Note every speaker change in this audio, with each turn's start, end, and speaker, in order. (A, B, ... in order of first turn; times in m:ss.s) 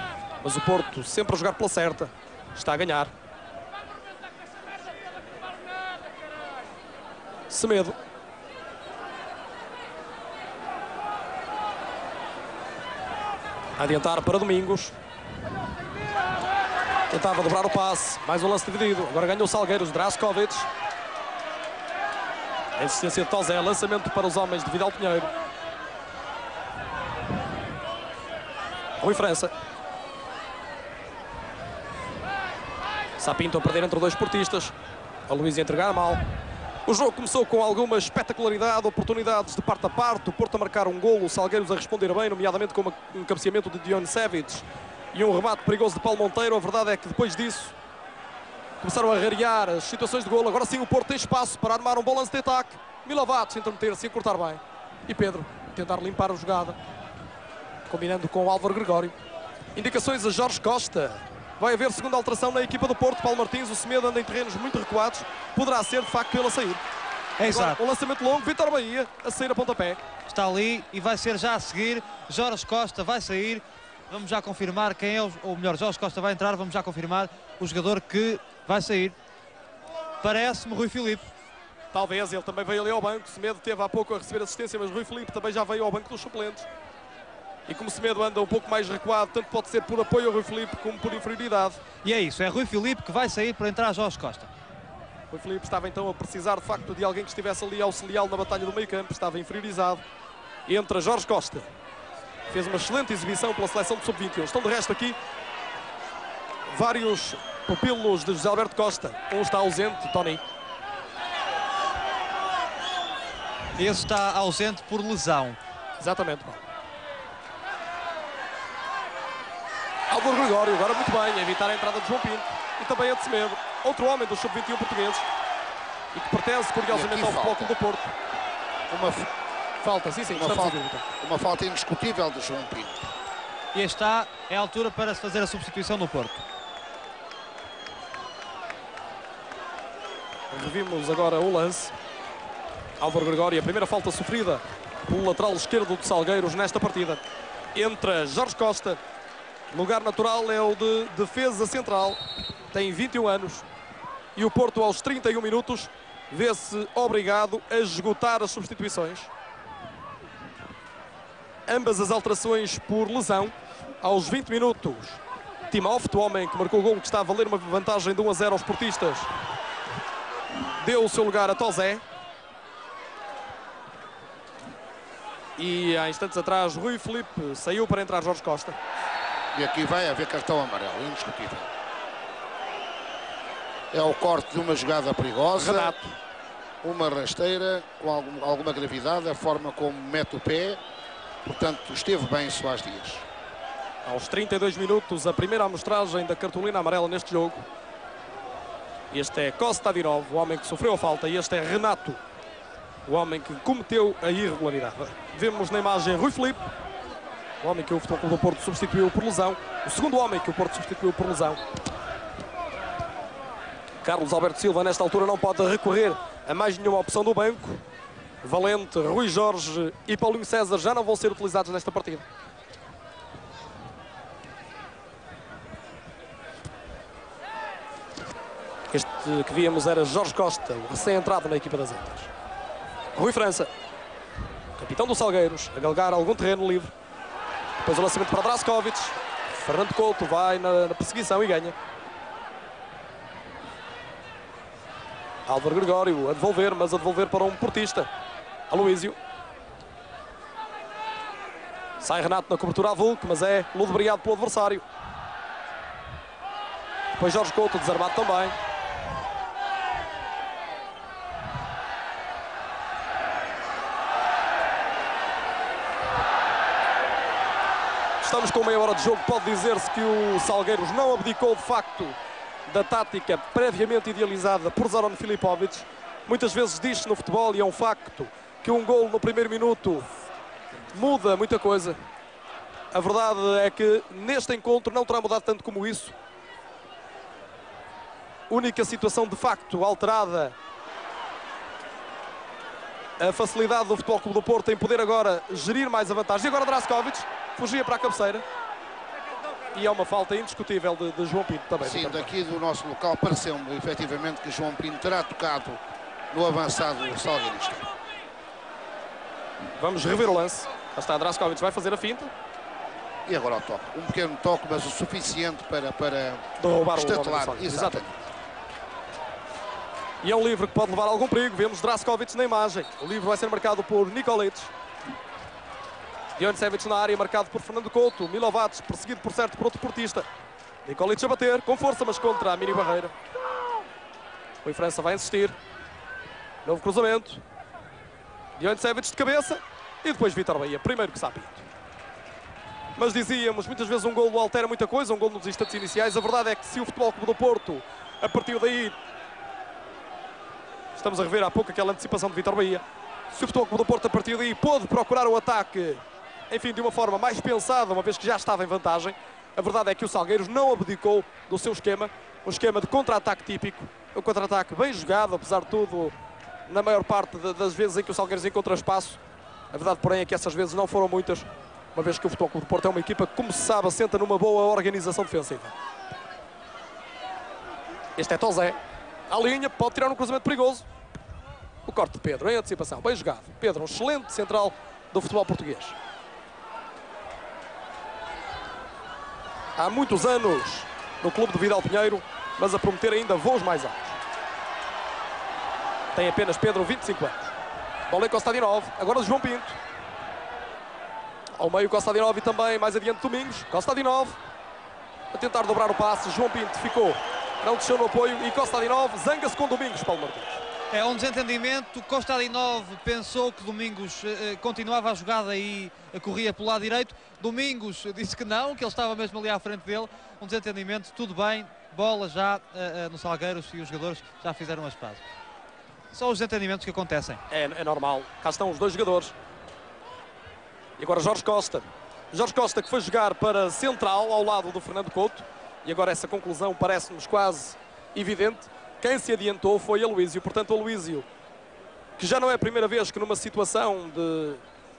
0:00.4-0:03.1 A
0:07.5-0:08.0 A
0:13.8-0:14.9 A
0:17.1-0:20.7 A
0:22.8-0:25.3 A
0:29.0-0:29.5 A
0:33.2-0:34.7 A
0:35.3-0:36.2 A
0:36.8-0:47.8 A
0:48.8-0:56.8 A
0:57.9-0:59.2 A
0:59.7-1:06.8 A
1:07.4-1:07.8 B
1:07.4-1:10.0 A
1:10.3-1:19.2 B
1:20.2-1:21.2 B
1:21.9-1:26.7 A
1:27.7-1:31.8 A
1:32.0-1:34.5 B
1:35.3-1:40.0 A
1:40.6-1:41.7 A
1:42.5-1:45.2 A
1:46.7-1:50.4 A
1:53.8-1:55.6 B
1:56.0-1:56.6 A
2:00.1-2:05.2 A
2:06.1-2:08.1 A
2:06.9-2:07.7 C
2:08.9-2:09.3 C
2:09.8-2:11.0 A
2:10.3-2:13.0 C
2:13.7-2:16.4 B
2:20.5-2:21.9 A
2:23.0-2:27.2 A
2:27.7-2:29.0 A
2:29.7-2:32.2 A
2:32.7-2:33.6 A
2:34.4-2:39.3 A
2:41.7-2:49.3 A
2:50.8-2:52.0 A
2:55.6-2:58.8 A
2:59.5-3:01.7 C
3:03.9-3:05.9 C
3:05.6-3:06.1 A
3:06.8-3:10.8 C
3:11.4-3:13.2 C
3:14.0-3:17.6 A
3:19.1-3:22.2 A
3:23.0-3:26.6 A
3:27.6-3:31.6 A
3:34.0-3:37.8 A
3:38.4-3:42.2 A
3:48.9-3:52.3 A
3:53.1-3:53.7 A
3:54.8-3:56.9 A
3:57.8-4:01.7 A
4:05.4-4:08.1 A
4:08.7-4:09.2 A
4:12.0-4:14.8 A
4:17.2-4:18.5 A
4:28.2-4:32.2 A
4:32.7-4:40.1 A
4:40.9-4:42.0 A
4:42.9-4:46.1 A
4:48.5-4:50.6 A
4:53.2-4:58.4 A
4:59.7-5:02.3 A
5:01.8-5:05.8 C
5:06.3-5:07.9 C
5:09.8-5:12.3 A
5:13.2-5:18.1 C
5:16.6-5:18.0 A
5:20.2-5:24.7 A
5:26.4-5:30.3 A
5:30.8-5:33.1 A
5:34.6-5:35.6 A
5:36.6-5:37.4 A
5:38.6-5:41.6 A
5:43.0-5:49.0 A
5:50.9-6:06.1 A
6:06.7-6:09.2 A
6:09.7-6:15.7 A
6:18.2-6:20.8 A
6:21.8-6:26.0 A
6:29.8-6:34.2 A
6:36.1-6:37.5 A
6:38.1-6:39.8 A
6:41.6-6:44.4 A
6:45.3-6:50.6 A
6:50.9-7:05.2 B
7:06.1-7:07.4 B
7:07.5-7:09.3 A
7:11.0-7:21.2 A
7:22.2-7:24.6 A